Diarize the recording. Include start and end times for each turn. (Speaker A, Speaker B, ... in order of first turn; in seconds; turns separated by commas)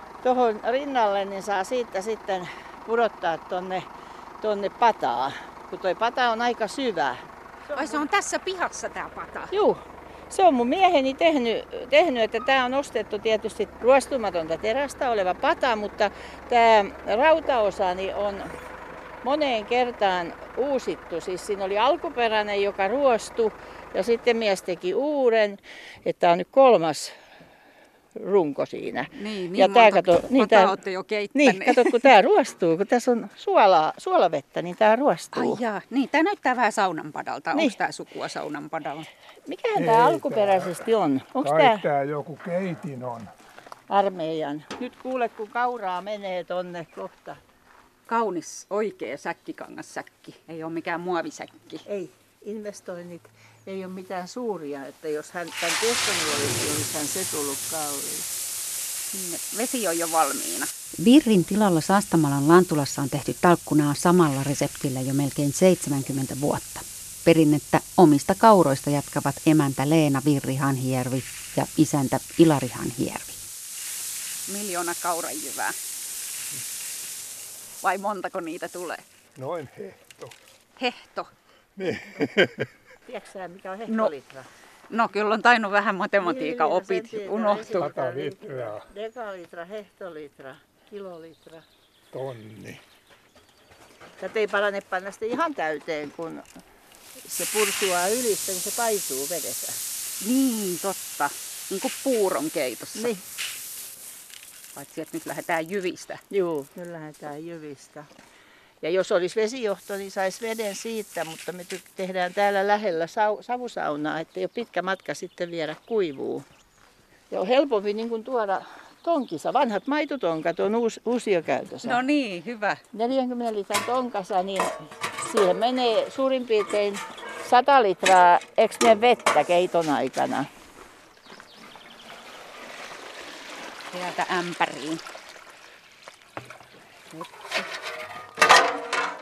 Speaker A: 0.2-3.9, Speaker A: 4.4-7.2, Speaker A: 7.7-8.0, Speaker B: 7.7-9.5, Speaker A: 9.5-18.5, Speaker A: 19.2-27.1, Speaker A: 28.2-30.7, Speaker B: 29.1-32.0, Speaker A: 31.3-35.6, Speaker B: 35.3-39.1, Speaker A: 39.5-41.8, Speaker C: 39.8-40.8, Speaker C: 41.4-43.3, Speaker A: 43.9-47.4, Speaker B: 48.1-51.8, Speaker A: 51.9-58.3, Speaker B: 59.1-60.7, Speaker D: 61.0-73.4, Speaker B: 74.5-75.8, Speaker B: 77.8-79.0, Speaker C: 79.3-80.3, Speaker B: 80.8-81.3, Speaker C: 81.8-82.7, Speaker A: 83.1-84.5, Speaker B: 84.9-87.8, Speaker A: 86.2-91.6, Speaker C: 87.8-88.8, Speaker C: 92.1-92.8, Speaker A: 94.2-96.5, Speaker A: 97.2-99.8, Speaker B: 100.2-103.1, Speaker A: 102.9-103.2, Speaker B: 104.7-106.2, Speaker A: 106.3-108.1, Speaker A: 108.8-116.4, Speaker A: 117.3-122.0, Speaker B: 121.8-122.8, Speaker A: 122.9-130.5, Speaker B: 133.9-135.0, Speaker B: 137.1-137.6